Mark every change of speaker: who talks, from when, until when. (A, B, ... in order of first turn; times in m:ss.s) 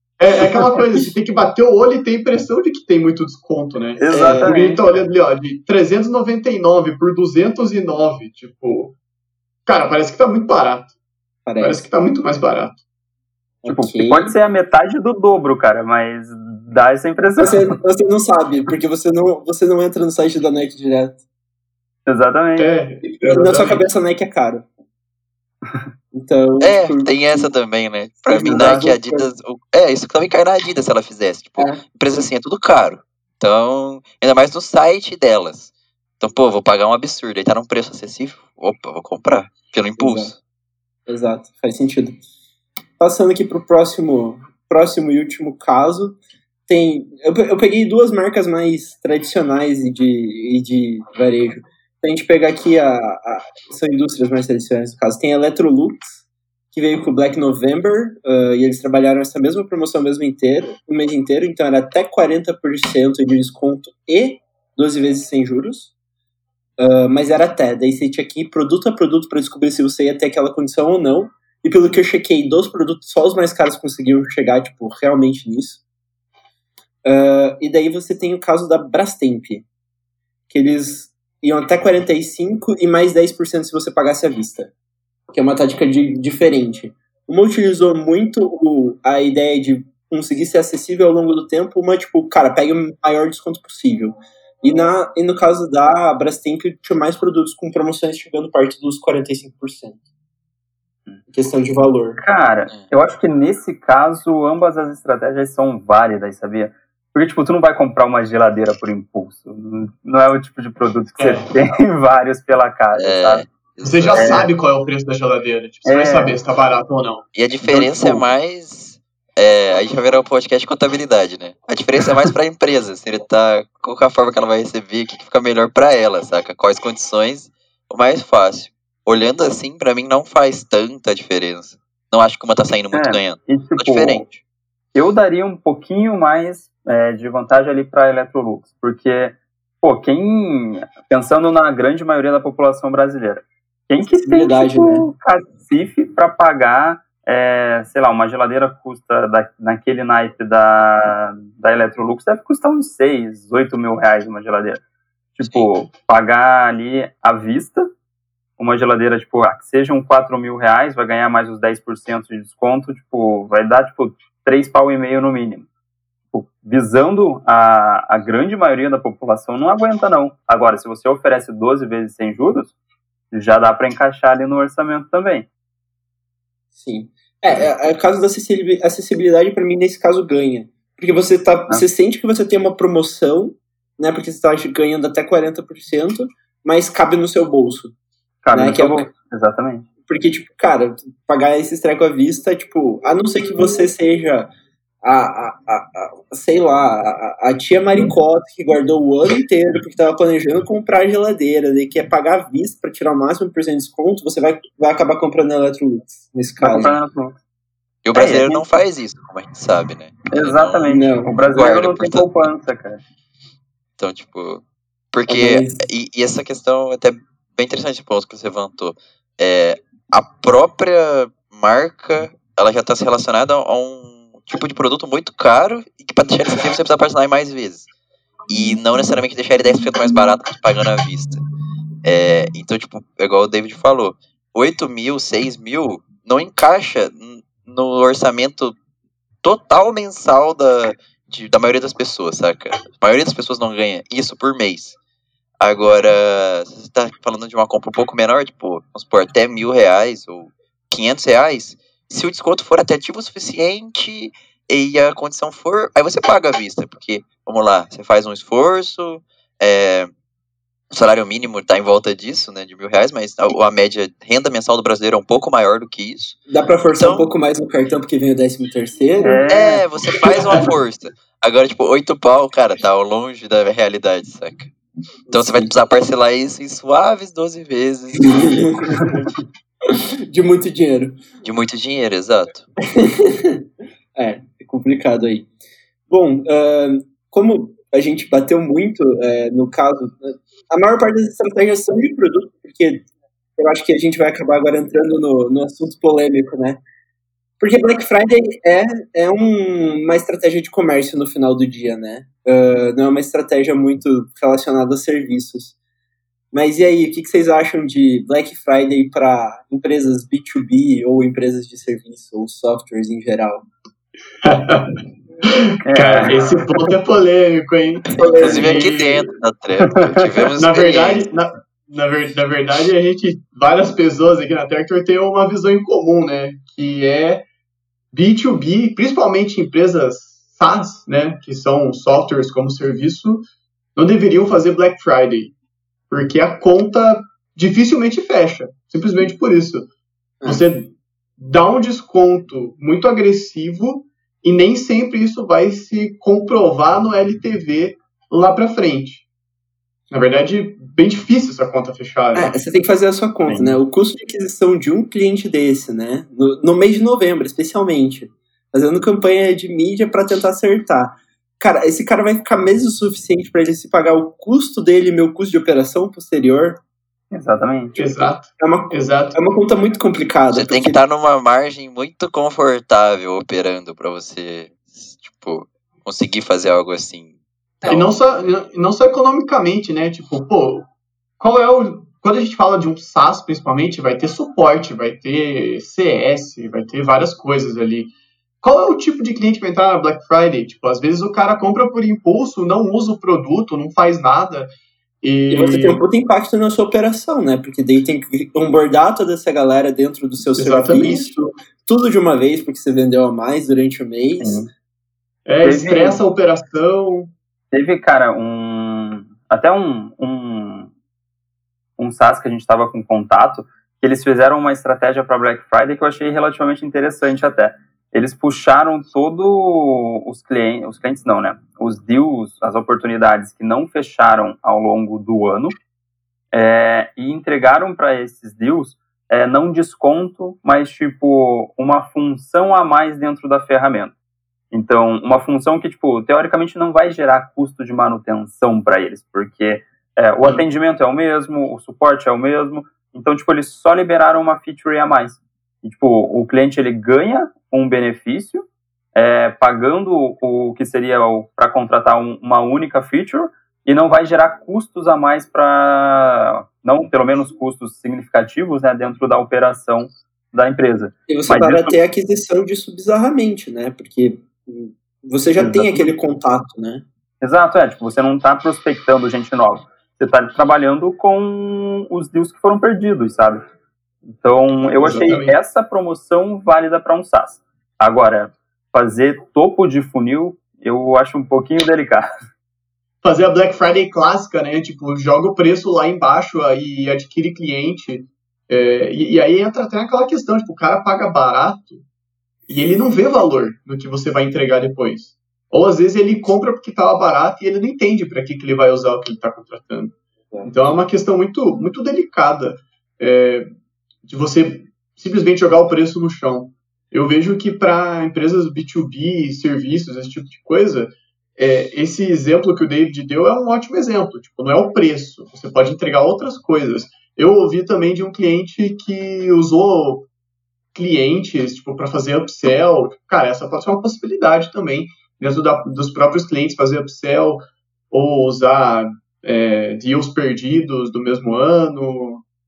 0:00.2-0:08.9 A
0:04.0-0:04.8 B
0:04.1-0:04.5 C
0:09.7-0:10.9 A
0:11.4-0:11.8 D
0:11.6-0:12.8 A
0:13.6-0:14.3 D
0:13.6-0:17.8 B
0:17.4-0:21.2 D
0:22.0-0:22.7 B
0:22.6-0:23.9 A
0:23.0-0:24.6 D
0:26.1-0:27.5 D
0:26.6-0:40.4 C
0:28.3-0:29.3 D
0:28.4-0:28.9 B
0:40.0-0:40.3 D
0:41.1-0:42.2 D
0:43.0-1:05.9 D
1:06.8-1:15.8 D
1:17.0-1:19.6 D
1:20.5-1:24.7 D
1:25.3-1:40.0 D
1:41.3-1:42.2 D
1:42.2-1:53.5 B
1:51.2-1:51.4 A
1:52.9-1:54.4 C
1:53.8-1:57.2 A
1:54.1-1:54.5 B
1:55.8-1:56.4 B
1:57.3-2:14.4 C
2:12.9-2:14.2 B
2:14.9-2:34.8 B
2:24.0-2:25.1 D
2:35.4-2:37.8 B
2:38.6-2:45.7 B
2:46.3-2:52.7 B
2:53.3-2:55.5 B
2:56.8-3:07.9 D
3:08.4-3:09.9 B
3:08.5-3:09.1 D
3:10.1-3:14.5 D
3:15.0-3:27.0 D
3:26.6-3:27.4 B
3:28.0-3:30.9 C
3:28.1-3:28.5 D
3:28.2-3:28.6 B
3:30.3-3:33.0 B
3:30.9-3:31.4 D
3:31.4-3:32.5 C
3:34.0-3:47.9 C
3:35.3-3:35.8 D
3:48.5-3:51.4 C
3:52.0-3:58.8 C
3:59.4-4:05.0 C
4:05.6-4:20.1 C
4:20.9-4:26.4 C
4:26.5-4:29.5 D
4:26.9-4:27.3 C
4:29.2-4:29.8 B
4:29.5-4:34.7 C
4:35.3-4:38.8 C
4:35.3-4:35.7 D
4:38.3-4:39.1 D
4:40.3-4:41.2 D
4:41.4-4:42.7 C
4:42.9-4:45.5 D
4:46.1-4:53.0 D
4:53.6-4:56.8 D
4:57.6-5:05.7 D
5:06.5-5:13.6 D
5:14.4-5:14.9 A
5:15.5-5:19.3 A
5:15.8-5:16.9 B
5:18.1-5:18.9 D
5:18.4-5:21.2 C
5:19.9-5:20.4 B
5:20.6-5:27.4 A
5:28.1-5:33.4 A
5:34.0-5:35.5 A
5:36.1-5:39.9 A
5:40.4-5:49.2 A
5:50.1-5:52.5 A
5:52.3-6:06.8 D
5:53.5-5:53.8 B
6:07.3-6:08.0 B
6:08.0-6:09.4 A
6:08.6-6:11.0 D
6:10.5-6:17.3 C
6:17.8-6:20.9 A
6:21.4-6:34.7 A
6:35.2-6:36.0 A
6:35.5-6:44.6 D
6:40.5-6:41.4 A
6:44.4-6:44.7 B
6:45.4-6:47.3 A
6:45.6-6:46.2 B
6:47.7-6:50.9 B
6:52.0-7:05.8 B
7:06.5-7:14.1 B
7:14.7-7:42.0 B
7:41.3-7:47.0 D
7:45.6-7:46.1 B
7:47.4-7:53.6 B
7:54.3-8:02.3 B
7:54.8-7:55.5 A
8:03.2-8:12.0 A
8:12.7-8:23.7 A
8:24.2-8:40.3 A
8:40.9-8:52.4 A